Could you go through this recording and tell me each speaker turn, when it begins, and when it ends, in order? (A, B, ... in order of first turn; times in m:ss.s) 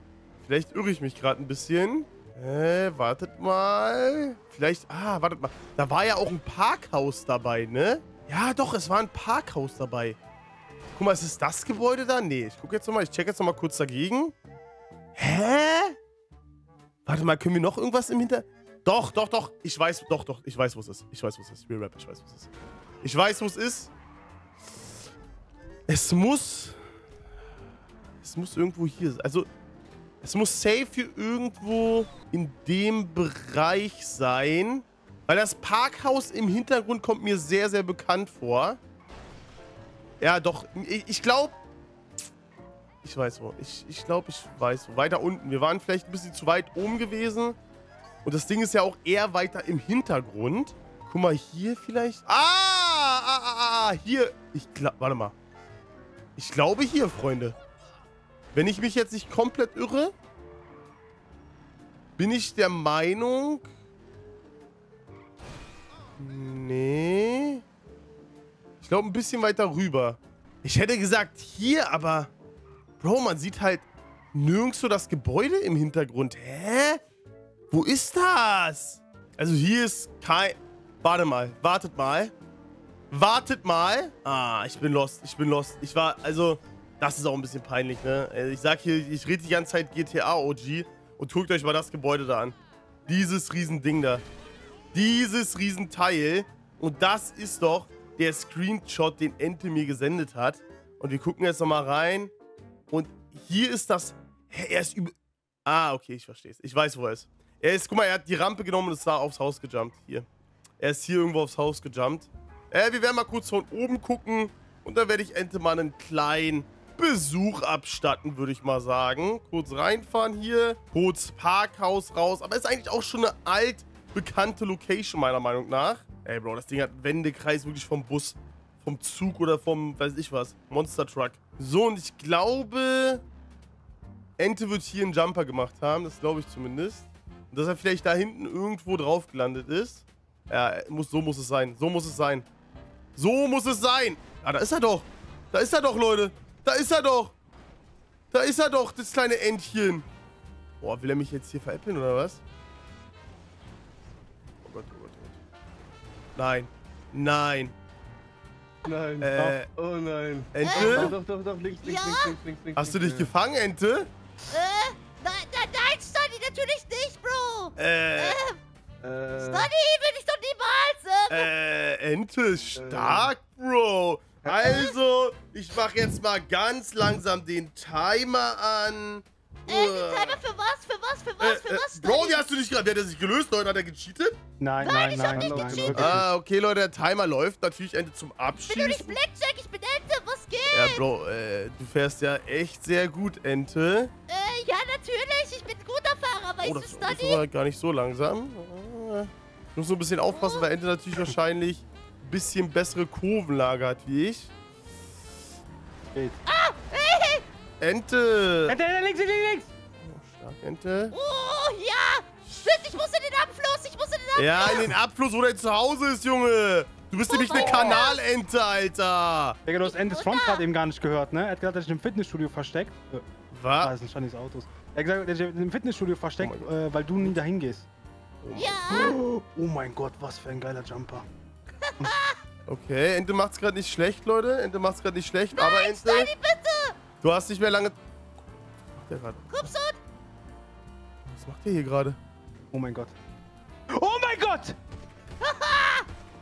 0:00.4-0:10.2 A
0:10.9-0:14.3 A
0:15.2-0:16.0 A
0:17.0-0:22.5 A
0:23.0-0:23.9 A
0:25.9-0:26.8 A
0:28.2-0:29.5 A
0:30.2-0:38.8 A
0:40.2-0:41.6 A
0:43.0-0:47.6 A
0:48.2-0:55.3 A
0:56.4-0:57.6 A
0:58.5-1:00.1 A
1:02.2-1:03.7 A
1:06.2-1:07.6 A
1:08.8-1:12.3 A
1:13.0-1:17.0 A
1:17.7-1:22.3 A
1:23.1-1:32.5 A
1:33.1-1:34.2 A
1:34.9-1:42.3 A
1:42.9-1:45.1 A
1:45.6-1:50.2 A
1:50.8-2:13.2 A
2:14.4-2:22.4 A
2:23.2-2:27.3 A
2:28.3-2:30.0 A
2:30.8-2:32.4 A
2:34.6-2:35.4 A
2:36.4-2:37.7 A
2:38.8-2:43.3 B
2:39.2-2:39.7 A
2:40.5-2:41.1 A
2:40.6-2:41.1 C
2:41.8-2:42.4 C
2:42.8-2:44.1 A
2:44.5-2:48.6 C
2:47.8-2:48.4 A
2:49.0-2:49.7 B
2:49.4-2:51.5 C
2:51.3-3:00.4 A
2:52.8-2:53.3 B
2:54.4-2:54.7 B
2:54.6-2:55.0 C
2:59.7-3:02.4 C
3:01.4-3:04.4 A
3:04.6-3:06.3 D
3:04.8-3:06.0 C
3:05.3-3:06.2 B
3:05.9-3:09.2 A
3:08.7-3:11.0 C
3:10.7-3:14.1 A
3:14.3-3:17.4 C
3:16.6-3:24.5 A
3:20.3-3:20.6 C
3:26.1-3:26.4 D
3:26.4-3:27.4 C
3:27.8-3:28.8 A
3:28.7-3:29.7 D
3:30.0-3:31.2 A
3:31.1-3:34.9 C
3:34.4-3:39.6 A
3:37.3-3:38.2 C
3:37.5-3:38.0 D
3:39.6-3:43.2 D
3:39.8-3:40.6 C
3:43.5-3:43.9 A
3:43.8-3:47.9 D
3:46.4-3:47.4 A
3:48.4-3:49.1 A
3:48.5-3:49.1 C
3:48.9-3:51.2 D
3:51.8-3:52.4 C
3:52.7-3:56.3 A
3:55.5-3:56.9 C
3:57.2-3:58.0 A
3:59.0-3:59.7 A
3:59.5-4:00.0 C
4:01.2-4:02.2 A
4:02.7-4:03.1 D
4:03.9-4:04.8 D
4:05.4-4:06.1 C